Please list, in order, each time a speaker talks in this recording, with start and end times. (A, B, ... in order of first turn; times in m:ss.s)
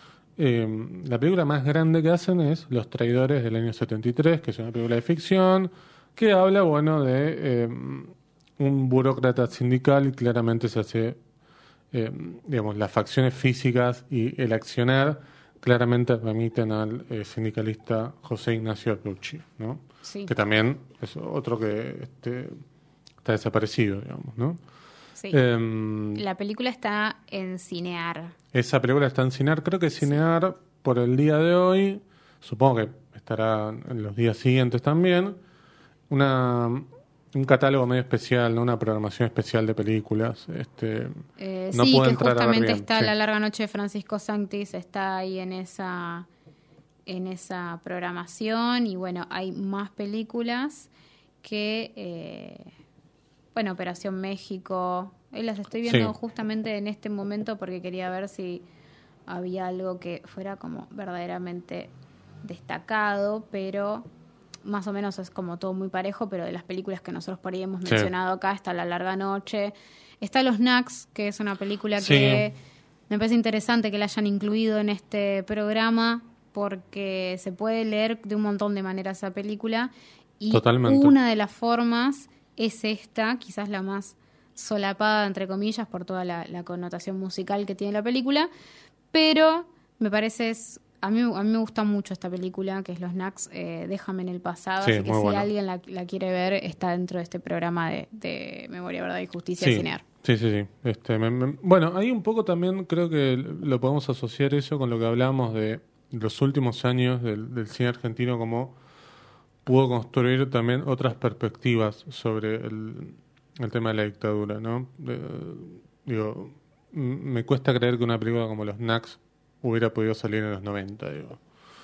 0:00.4-0:11.2 A
0:11.9-0:22.6 A
0:20.0-0:20.3 B
0:23.2-0:24.6 A
0:25.3-0:26.2 A
0:26.1-0:28.3 B
0:28.5-0:35.4 A
0:36.1-0:41.2 A
0:41.4-0:46.3 B
0:41.7-0:43.1 A
0:47.1-0:50.9 B
0:51.4-0:52.7 B
0:53.6-0:58.6 B
0:55.9-0:56.1 A
0:59.3-1:01.9 B
1:02.4-1:04.1 B
1:04.6-1:12.5 B
1:07.8-1:08.1 A
1:12.0-1:12.5 A
1:13.1-1:28.5 B
1:20.5-1:21.2 A
1:29.1-1:40.0 B
1:34.8-1:35.5 A
1:39.6-1:48.8 A
1:49.6-2:01.4 A